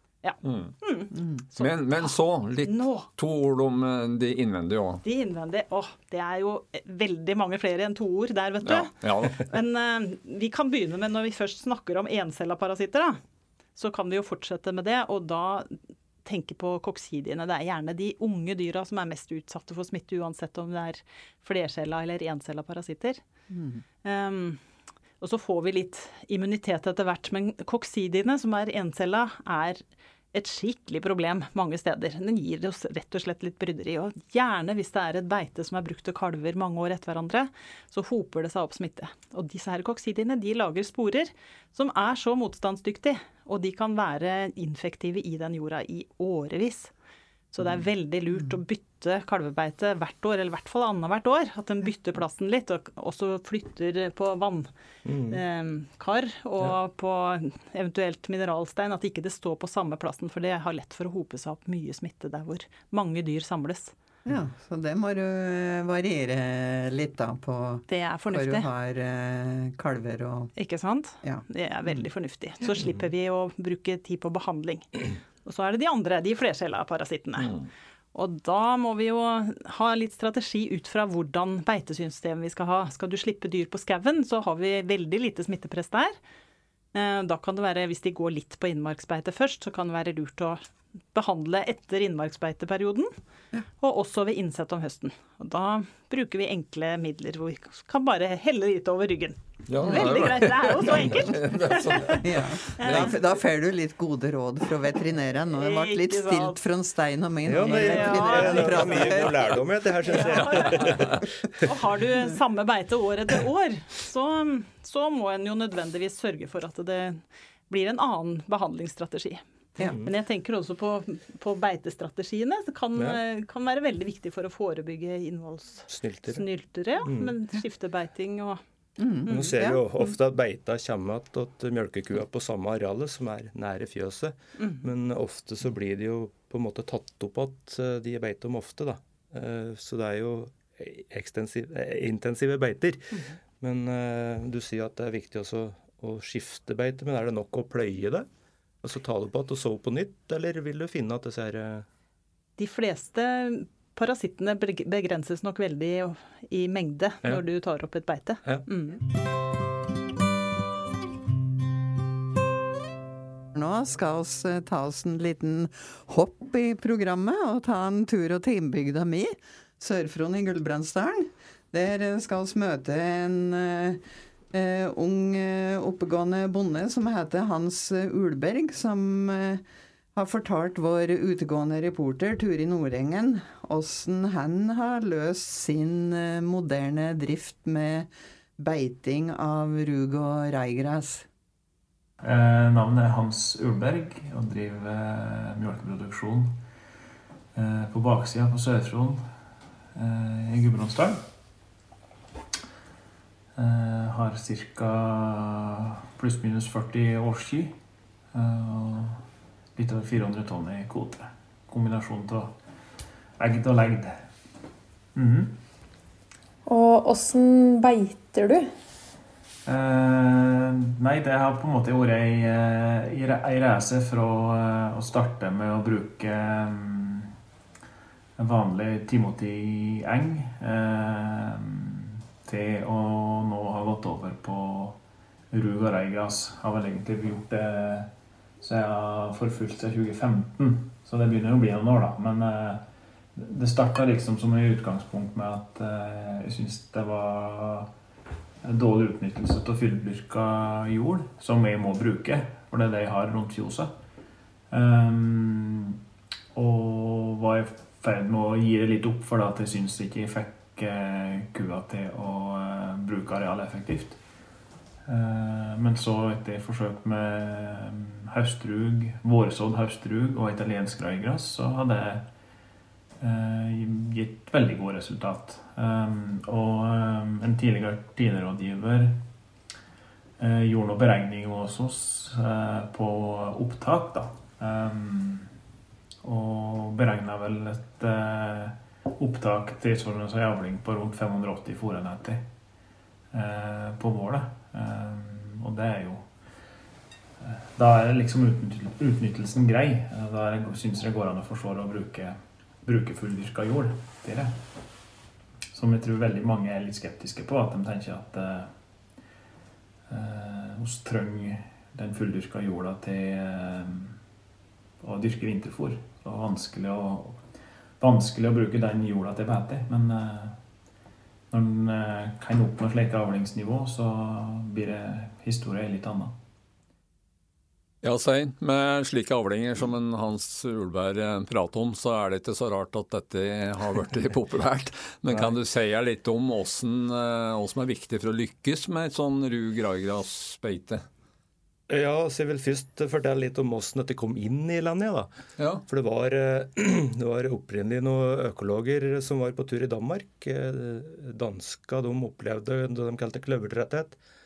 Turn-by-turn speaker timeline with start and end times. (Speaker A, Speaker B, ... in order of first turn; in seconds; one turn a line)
Speaker A: 0.2-2.1
Speaker B: 0.4-0.8
Speaker B: 1.6-5.0
Speaker A: 2.6-3.1
Speaker A: 5.0-13.2
Speaker B: 8.6-9.5
Speaker A: 13.8-23.2
Speaker C: 23.5-23.8
Speaker A: 24.0-24.6
Speaker A: 25.2-46.9
Speaker A: 47.5-54.7
Speaker D: 55.0-55.4
Speaker A: 55.3-63.9
Speaker C: 64.2-70.5
Speaker A: 67.9-68.7
Speaker A: 70.5-77.5
Speaker A: 78.1-86.2
Speaker A: 86.9-93.1
Speaker A: 93.8-103.2
Speaker B: 99.7-103.2
Speaker C: 99.8-100.1
Speaker C: 102.2-109.6
Speaker A: 105.5-106.6
Speaker D: 107.5-111.7
Speaker A: 107.6-109.3
Speaker A: 110.0-111.0
Speaker A: 111.6-128.6
Speaker D: 119.8-120.1
Speaker D: 125.9-126.4
Speaker D: 127.0-127.3
Speaker C: 129.0-129.8
Speaker A: 129.2-129.5
Speaker D: 129.3-148.3
Speaker A: 134.6-134.8
Speaker D: 148.8-151.8
Speaker A: 152.6-159.0
Speaker C: 163.5-179.6
Speaker C: 180.1-191.3
Speaker E: 192.2-196.6
Speaker E: 197.5-199.2
Speaker E: 199.9-201.2
Speaker E: 203.6-207.7
Speaker E: 208.3-209.2
Speaker E: 209.8-212.5
Speaker E: 213.4-214.3
Speaker E: 215.1-215.6
Speaker F: 216.7-218.7
Speaker E: 219.7-227.3
Speaker E: 228.4-235.0
Speaker E: 235.5-247.9
Speaker E: 248.6-253.9
Speaker E: 254.7-256.0
Speaker E: 256.5-264.2
Speaker E: 265.1-272.3
Speaker E: 273.2-279.3
Speaker E: 280.4-285.5
Speaker E: 286.2-292.5
Speaker E: 293.3-296.3
Speaker E: 297.4-304.7
Speaker E: 305.7-308.7
Speaker E: 310.1-314.2
Speaker E: 315.0-317.5
Speaker E: 318.0-320.6
Speaker E: 321.5-326.4
Speaker B: 328.0-341.0
Speaker D: 341.9-345.3
Speaker B: 345.6-345.8
Speaker D: 345.9-354.2